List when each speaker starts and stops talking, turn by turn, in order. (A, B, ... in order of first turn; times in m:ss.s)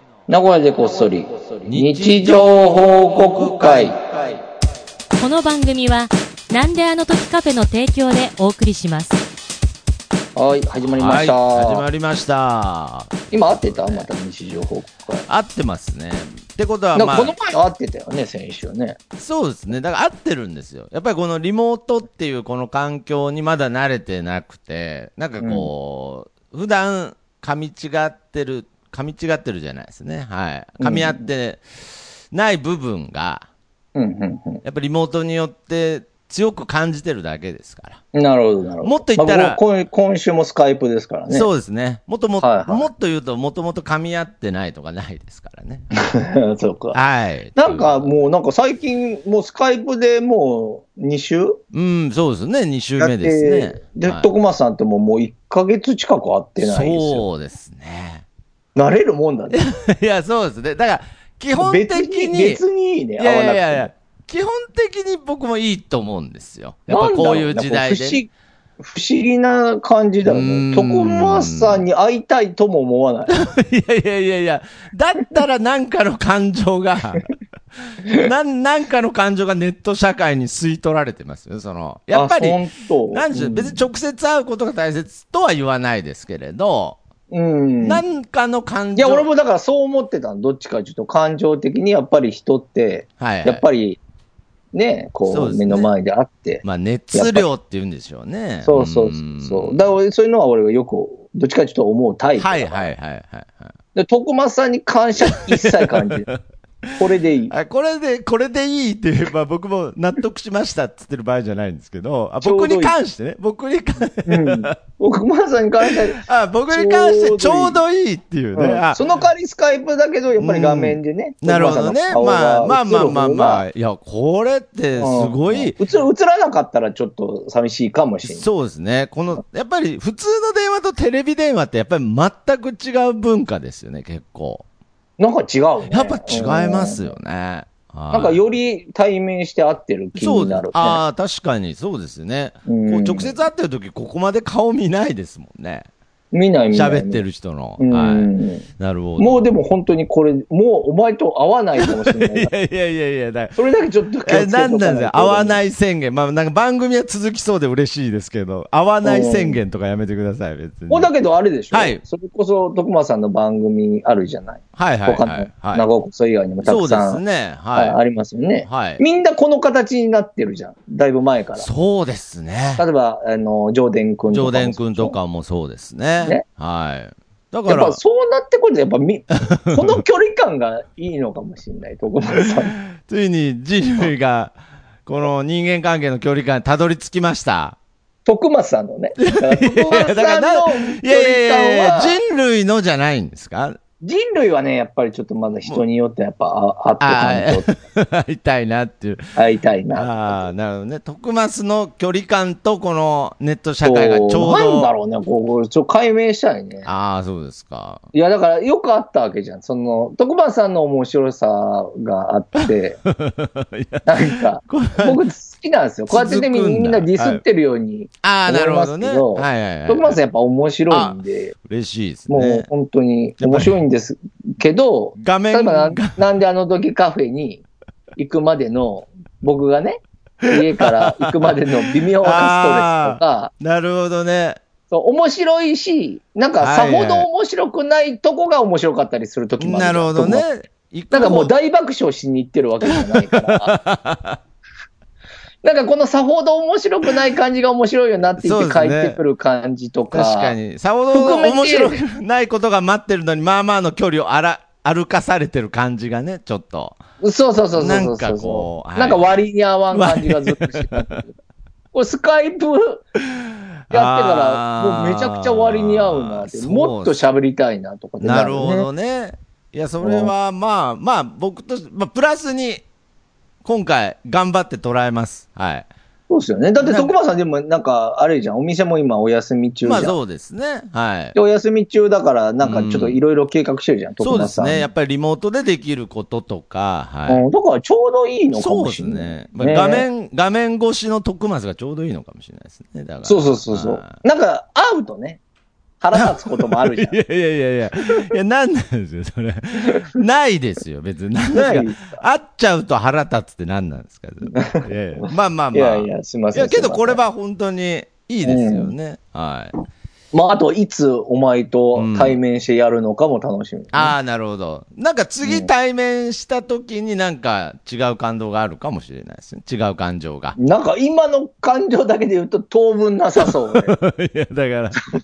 0:00.3-0:04.0 A
0:01.6-0:04.4 B
0:05.2-0:09.2 C
0:10.4-0:11.8 A
0:11.0-0:14.1 B
0:13.3-0:15.3 A
0:15.3-0:17.3 B
0:17.0-0:19.0 A
0:19.2-0:33.5 B
0:25.4-0:25.7 A
0:30.8-0:31.3 A
0:34.0-0:34.6 A
0:34.6-0:38.0 B
0:38.1-0:41.5 A
0:38.8-0:39.6 B
0:41.3-0:45.9 B
0:42.4-0:42.9 A
0:46.0-0:47.0 A
0:46.9-0:48.1 B
0:47.6-0:51.6 A
0:51.7-0:54.3 B
0:53.0-0:57.2 A
0:56.6-0:58.2 B
0:58.8-0:59.7 A
0:59.5-1:02.6 B
1:01.6-1:03.9 A
1:03.2-1:08.2 B
1:06.9-1:13.4 A
1:10.2-1:11.8 B
1:13.3-1:17.3 B
1:18.0-1:27.0 B
1:22.1-1:23.8 A
1:27.3-1:28.0 A
1:27.8-1:29.3 B
1:29.0-1:34.0 A
1:33.2-1:33.6 B
1:34.7-1:37.5 A
1:35.3-1:35.9 B
1:36.6-1:39.8 B
1:38.6-1:42.9 A
1:42.4-1:43.7 B
1:44.0-1:46.3 A
1:45.3-1:54.8 B
1:47.0-1:47.5 A
1:52.4-1:53.0 A
1:54.3-1:57.8 A
1:55.8-1:59.2 B
1:58.5-2:03.6 A
2:00.4-2:05.8 B
2:05.0-2:08.5 A
2:08.3-2:14.6 B
2:15.2-2:17.2 A
2:15.9-2:18.4 B
2:18.1-2:21.0 A
2:20.2-2:25.9 B
2:22.7-2:23.4 A
2:26.3-2:27.2 A
2:26.7-2:29.4 B
2:27.8-2:28.7 A
2:29.2-2:32.5 A
2:31.8-2:33.6 B
2:33.6-2:35.6 A
2:34.3-2:41.1 B
2:39.0-2:39.6 A
2:40.9-2:47.2 A
2:41.7-2:42.0 B
2:44.8-2:45.8 B
2:46.6-2:48.0 B
2:47.8-2:51.7 A
2:48.7-2:49.0 B
2:51.6-2:52.8 B
2:52.8-2:55.2 A
2:54.3-2:58.0 B
2:57.7-3:02.7 A
2:59.5-3:00.0 B
3:02.9-3:04.6 B
3:05.1-3:07.8 B
3:08.2-3:12.2 A
3:09.2-3:13.8 B
3:14.0-3:17.8 A
3:17.0-3:19.3 B
3:19.4-3:20.5 A
3:20.0-3:24.9 B
3:23.8-3:26.9 A
3:26.8-3:28.0 B
3:28.1-3:33.0 A
3:33.1-3:35.2 B
3:34.1-3:41.6 A
3:36.1-3:37.4 B
3:38.2-3:40.2 B
3:40.9-3:42.7 B
3:42.3-3:47.6 A
3:43.4-3:43.8 B
3:45.2-3:46.2 B
3:48.2-3:53.5 A
3:50.4-3:51.2 B
3:52.2-3:54.6 B
3:54.9-4:00.5 A
3:56.6-3:57.3 B
3:59.6-4:01.5 B
4:01.1-4:03.8 A
4:02.8-4:04.4 B
4:05.6-4:10.6 A
4:08.4-4:09.2 B
4:10.1-4:17.0 B
4:11.1-4:12.0 A
4:17.2-4:21.3 A
4:17.8-4:19.3 B
4:19.9-4:21.2 B
4:21.9-4:23.0 A
4:23.3-4:27.2 B
4:23.9-4:28.9 A
4:28.2-4:32.8 B
4:30.0-4:30.3 A
4:33.6-4:35.9 B
4:36.3-4:40.2 A
4:36.8-4:37.2 B
4:39.8-4:41.4 B
4:41.4-4:44.9 A
4:42.6-4:43.2 B
4:44.2-4:47.4 B
4:47.3-4:50.1 A
4:48.5-4:54.2 B
4:53.2-4:55.4 A
4:56.0-4:57.2 A
4:56.2-5:09.7 B
5:01.5-5:02.2 A
5:04.5-5:07.2 A
5:08.4-5:08.9 A
5:10.3-5:14.1 A
5:12.0-5:12.4 B
5:13.9-5:20.6 B
5:15.4-5:15.7 A
5:20.6-5:24.0 A
5:23.4-5:25.0 B